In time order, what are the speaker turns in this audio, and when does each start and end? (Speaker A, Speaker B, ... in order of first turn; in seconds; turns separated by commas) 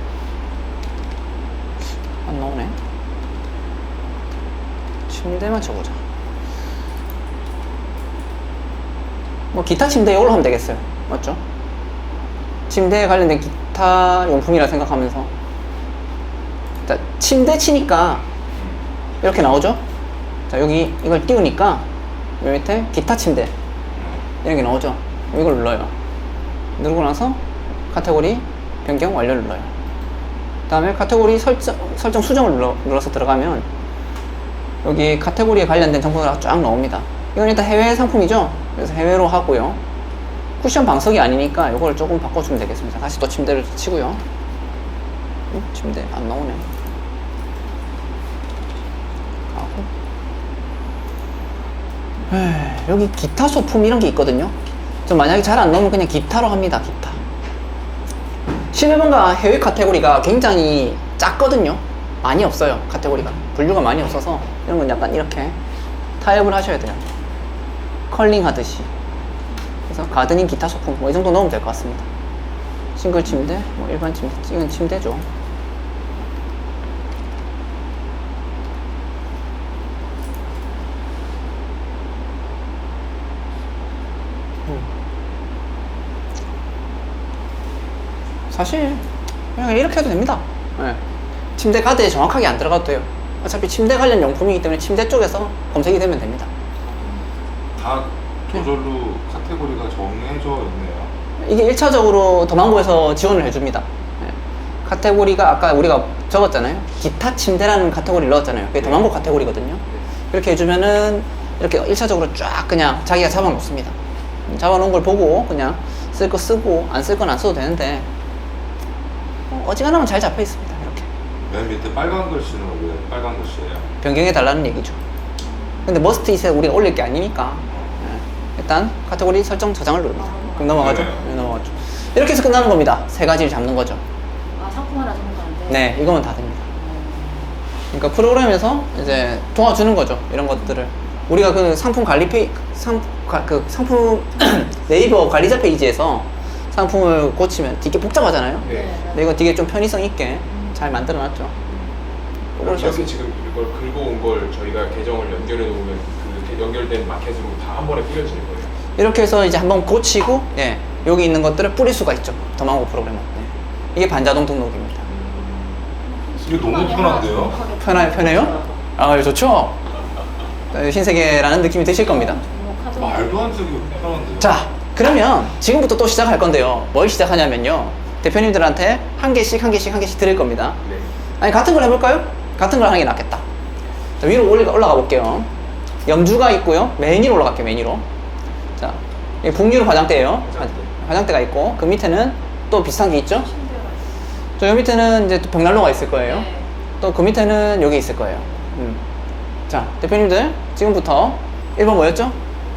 Speaker A: 2.2-2.8, Speaker A: 5.1-6.0, Speaker A: 9.5-11.4, Speaker A: 12.7-15.3, Speaker A: 16.9-18.2, Speaker A: 19.2-19.8, Speaker A: 20.5-21.9, Speaker A: 22.4-23.5, Speaker A: 24.4-25.9, Speaker A: 26.8-27.4, Speaker A: 27.9-29.7, Speaker A: 30.7-33.7, Speaker A: 34.8-39.8, Speaker A: 40.6-44.2, Speaker A: 45.5-46.6, Speaker A: 49.5-49.9, Speaker A: 52.3-54.5, Speaker A: 55.1-57.2, Speaker A: 58.7-65.5, Speaker A: 66.2-67.0, Speaker A: 68.1-68.9, Speaker A: 69.9-72.0, Speaker A: 73.0-75.2, Speaker A: 88.5-89.0, Speaker A: 89.5-91.0, Speaker A: 91.5-96.5, Speaker B: 97.8-101.1, Speaker A: 101.4-104.3, Speaker A: 104.8-113.9, Speaker A: 114.5-118.0, Speaker A: 119.5-121.1, Speaker B: 121.5-123.9, Speaker A: 124.0-125.0, Speaker A: 125.8-134.0, Speaker B: 130.7-131.3, Speaker C: 134.6-135.7, Speaker A: 135.7-136.7, Speaker C: 136.8-137.3, Speaker A: 137.9-151.5, Speaker D: 148.6-149.0, Speaker A: 152.6-153.1, Speaker D: 152.6-158.7, Speaker A: 159.0-165.1, Speaker C: 166.2-168.8, Speaker B: 166.4-167.7, Speaker A: 167.8-169.8, Speaker A: 170.7-172.4, Speaker C: 172.1-173.3, Speaker B: 172.9-174.6, Speaker A: 174.4-180.8, Speaker A: 181.4-183.4, Speaker A: 184.2-185.5, Speaker A: 186.1-188.1, Speaker A: 188.8-193.5, Speaker A: 194.6-196.5, Speaker A: 197.0-199.0, Speaker A: 199.7-202.4